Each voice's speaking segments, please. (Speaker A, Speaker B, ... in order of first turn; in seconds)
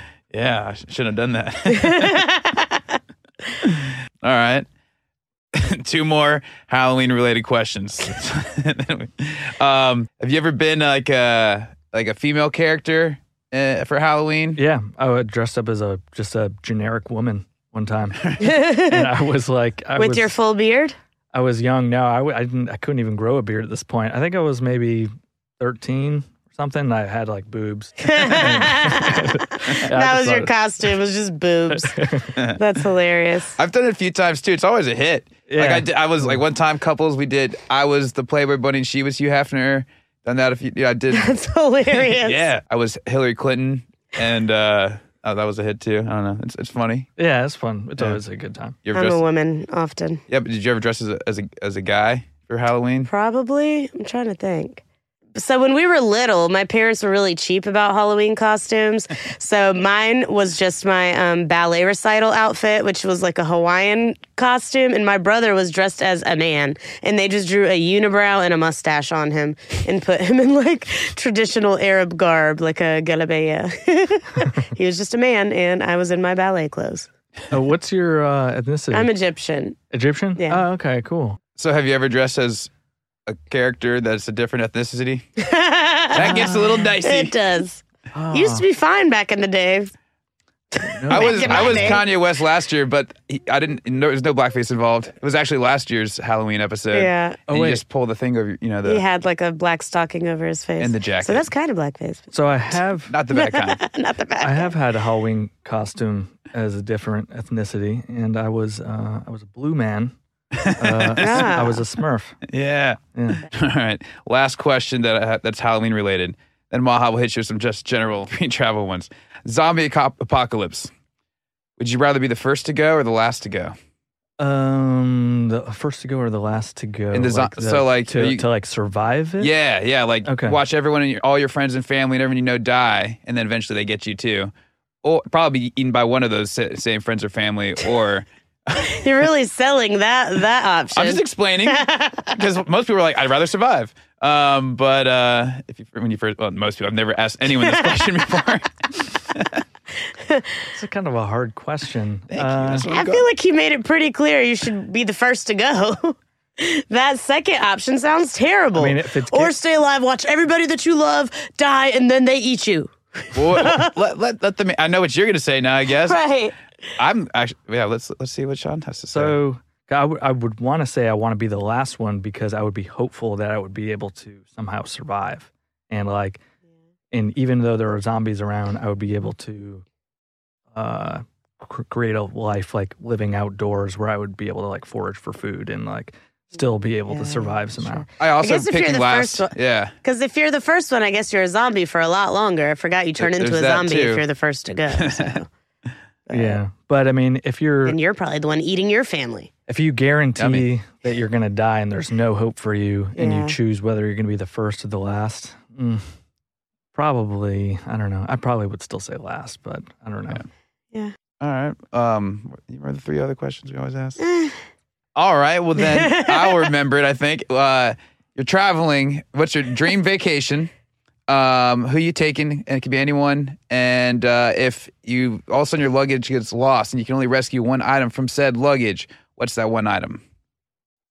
Speaker A: 0.3-2.2, 3.6-4.7, 5.5-14.6, 33.6-41.3, 41.9-47.1, 48.9-49.2, 50.3-53.1, 81.6-82.7, 83.3-85.2, 86.1-87.3, 91.1-99.0, 100.8-101.5, 103.1-103.8, 110.5-111.4, 112.5-120.9, 121.8-123.7, 127.1-128.4, 129.4-134.5, 135.0-138.9, 140.9-149.6, 152.3-153.3, 163.3-166.2, 167.0-169.4, 188.2-189.9, 193.2-194.2, 194.9-195.4, 200.4-200.7, 211.4-214.2, 215.2-220.7, 221.3-230.2
Speaker B: 1.7-3.0, 18.4-19.1, 19.9-20.9, 28.0-33.6, 41.1-42.5, 48.9-50.2, 53.1-54.8, 55.3-77.1, 78.9-79.8, 80.4-80.6, 85.4-89.9, 90.7-92.0, 96.9-97.4, 98.8-102.3, 103.3-104.7, 111.2-111.8, 138.7-142.3, 147.6-148.1, 150.2-150.7, 152.9-163.9, 165.9-166.5, 187.1-195.5, 196.2-196.6, 197.8-199.5, 203.2-203.6, 214.2-214.6, 215.8-216.7
Speaker C: 14.6-20.4, 21.3-30.5, 31.7-32.4, 35.5-36.4, 47.2-48.8, 77.5-79.1, 79.9-81.4, 86.2-86.8, 88.1-88.6, 90.8-92.0, 97.5-97.8, 102.3-103.1, 104.4-110.1, 110.8-112.4, 113.1-113.5, 124.4-129.5, 130.2-130.6, 150.7-152.8, 158.7-159.5, 169.1-176.4, 177.1-179.8, 180.7-188.1, 196.3-198.0, 199.7-206.0, 206.9-210.4